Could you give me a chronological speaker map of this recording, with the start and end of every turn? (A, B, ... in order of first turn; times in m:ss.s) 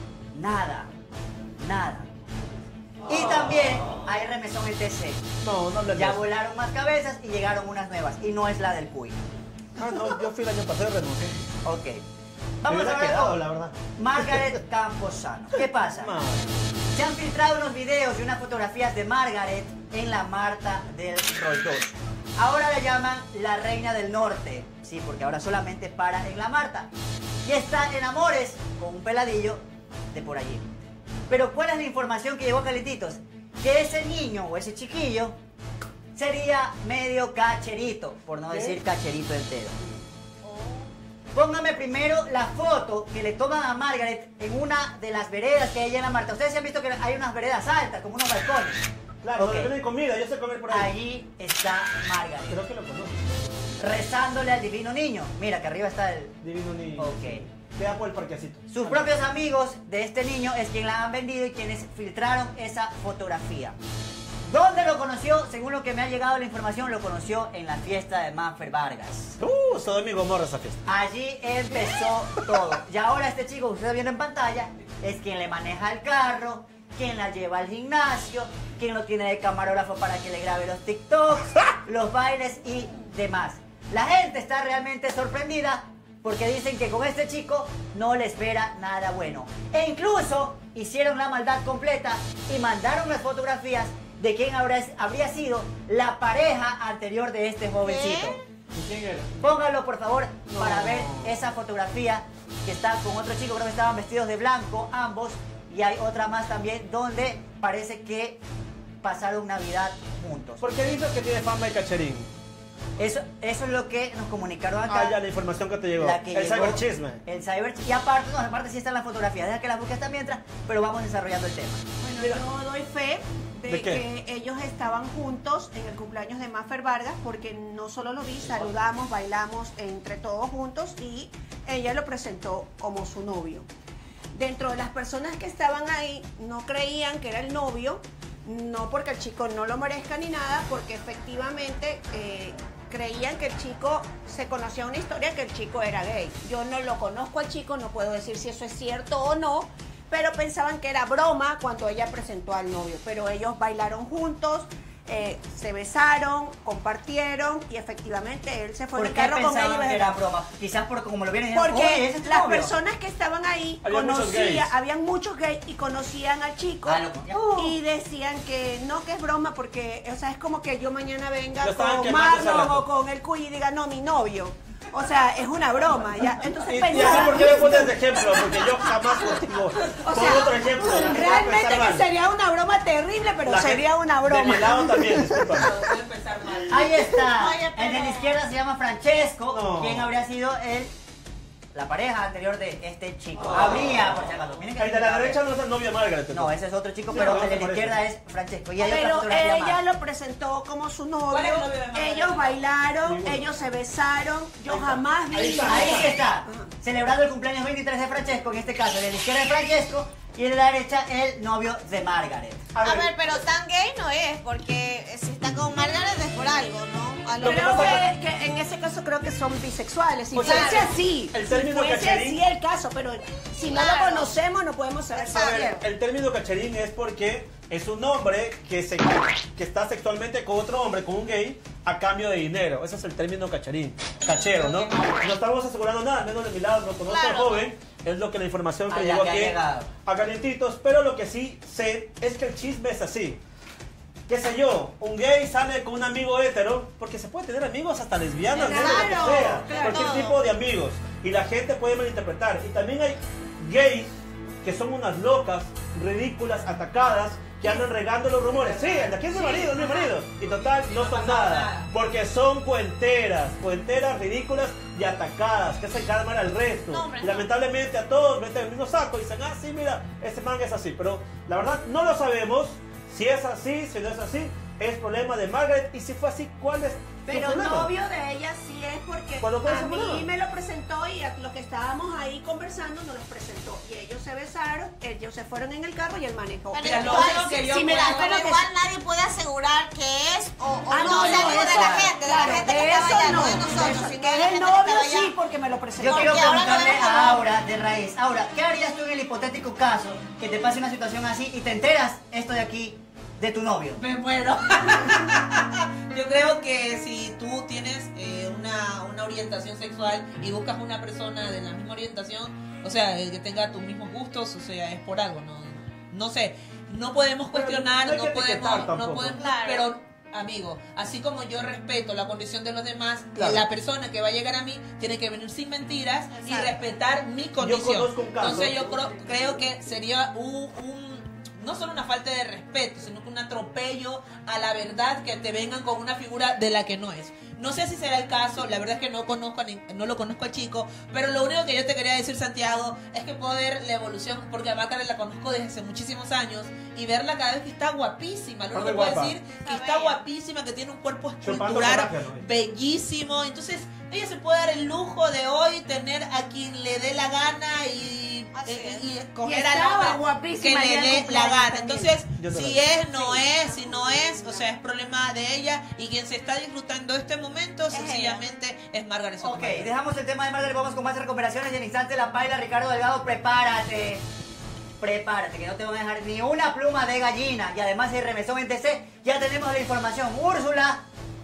0:00.3-0:00.9 A
0:01.6-0:02.1 A
0:03.1-0:05.2 A
0:05.4-0:06.2 B
0:05.9-0:09.2 A
0:09.8-0:11.4 B
0:11.6-0:12.0 A
0:12.6-0:13.4 A
0:12.7-0:14.6 B
0:14.0-0:16.2 A
0:16.0-0:16.4 B
0:16.9-0:26.9 A
0:27.4-0:35.4 A
0:36.2-0:39.8 A
0:38.5-0:38.8 B
0:40.4-0:40.9 C
0:41.4-0:48.8 A
0:49.2-0:50.9 B
0:49.4-0:49.7 A
0:50.7-0:52.6 A
0:52.5-0:53.2 B
0:53.8-0:56.4 A
0:56.4-0:58.7 B
0:57.0-0:57.4 A
0:58.7-1:03.8 A
1:04.5-1:09.4 A
1:09.4-1:10.9 B
1:10.9-1:38.4 A
1:37.8-1:38.4 C
1:38.7-1:39.4 B
1:39.4-1:48.4 A
1:40.5-1:41.4 B
1:49.0-1:50.6 A
1:50.6-1:52.3 B
1:53.0-1:55.2 A
1:54.9-1:57.2 B
1:56.0-2:01.8 A
2:02.0-2:13.7 D
2:03.7-2:04.0 B
2:14.3-2:40.2 D
2:39.0-2:42.7 A
2:41.5-2:58.7 D
2:43.8-2:44.6 B
2:46.8-2:47.7 A
2:51.6-2:52.8 B
2:56.7-3:02.1 B
2:57.0-2:57.4 A
2:59.8-3:00.3 E
3:00.0-3:05.3 D
3:03.5-3:05.7 B
3:05.4-3:08.1 E
3:06.7-3:10.9 A
3:07.5-3:08.2 C
3:09.5-3:10.1 B
3:11.7-3:15.4 A
3:13.5-3:13.8 B
3:14.8-3:16.5 B
3:16.3-3:19.8 A
3:17.1-3:18.0 B
3:17.1-3:17.4 D
3:18.8-3:26.7 D
3:21.3-3:22.6 E
3:23.0-3:23.5 B
3:24.7-3:26.1 B
3:25.6-3:32.7 A
3:32.8-3:33.1 B
3:32.8-3:38.1 C
3:37.4-3:45.7 D
3:37.4-3:38.0 B
3:40.3-3:40.7 B
3:40.4-3:41.0 C
3:41.3-3:42.4 B
3:43.7-3:44.4 C
3:45.1-3:45.8 C
3:45.4-4:03.4 B
3:57.0-3:57.7 C
3:58.9-3:59.9 A
4:04.3-4:37.9 B
4:08.5-4:10.0 D
4:08.7-4:10.4 C
4:18.5-4:20.1 E
4:20.6-4:21.9 E
4:26.9-4:27.5 C
4:37.3-4:37.7 A
4:37.3-4:48.6 D
4:39.4-4:40.3 B
4:46.7-4:55.4 C
4:46.8-4:48.5 E
4:50.9-4:56.4 D
4:51.1-4:51.7 E
4:51.8-4:52.1 A
4:56.0-5:04.0 A
4:56.0-4:57.4 C
5:04.0-6:09.9 E
5:17.5-5:19.4 B
5:19.4-5:19.9 C
5:23.4-5:23.6 B
5:26.4-5:26.8 C
5:27.6-5:28.8 B
5:48.7-5:49.4 B
5:49.5-5:50.2 C
5:51.4-5:52.5 B
5:58.5-5:59.1 C
5:59.4-6:02.2 D
6:02.3-6:02.8 B
6:02.8-6:04.7 D
6:07.9-6:08.4 C
6:09.4-6:14.2 A
6:15.0-6:21.0 A